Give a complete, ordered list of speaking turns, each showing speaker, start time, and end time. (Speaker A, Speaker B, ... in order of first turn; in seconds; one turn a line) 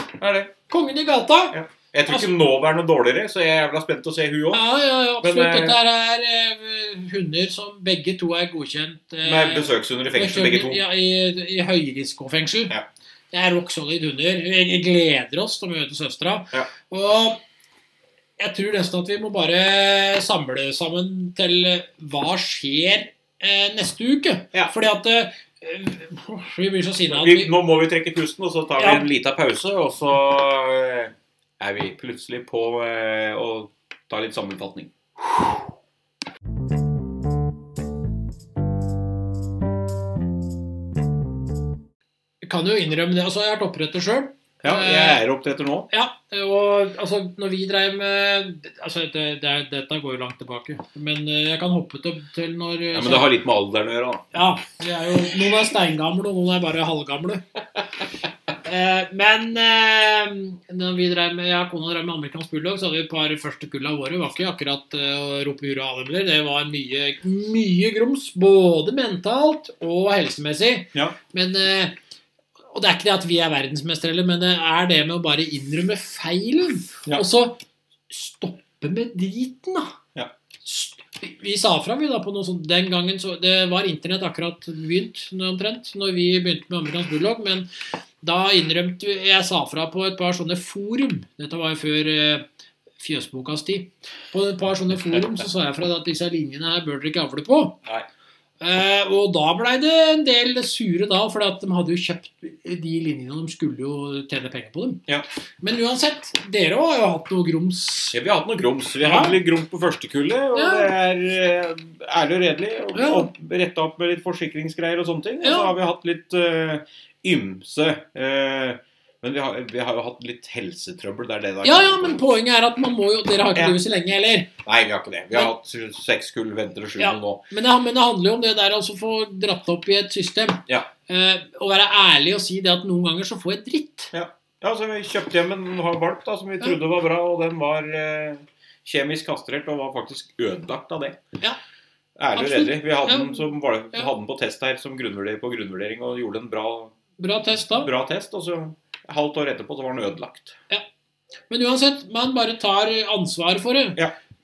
Speaker A: 0.2-0.5
Speaker B: 0.7-1.6
Speaker A: 1.5-4.6
Speaker B: 4.5-12.7
Speaker A: 5.2-5.8
Speaker A: 9.2-10.8
Speaker B: 13.3-17.4
Speaker B: 18.4-27.5
Speaker A: 27.1-34.9
Speaker B: 28.8-29.1
Speaker B: 42.4-45.2
Speaker A: 44.6-45.9
Speaker B: 45.9-53.3
Speaker A: 52.9-54.2
Speaker B: 54.3-57.4
Speaker B: 58.6-72.0
Speaker B: 72.7-80.0
Speaker B: 80.7-87.7
Speaker B: 88.2-92.5
Speaker B: 93.0-97.8
Speaker B: 98.6-105.0
Speaker B: 105.6-108.2
Speaker A: 108.1-122.2
Speaker B: 109.0-109.4
Speaker B: 110.5-110.9
Speaker B: 112.9-113.3
Speaker B: 115.4-115.8
Speaker B: 121.6-124.5
Speaker A: 124.7-127.4
Speaker B: 127.0-134.1
Speaker A: 134.1-141.2
Speaker A: 142.2-146.9
Speaker B: 142.3-144.1
Speaker B: 147.2-147.9
Speaker A: 147.7-150.6
Speaker B: 151.5-154.0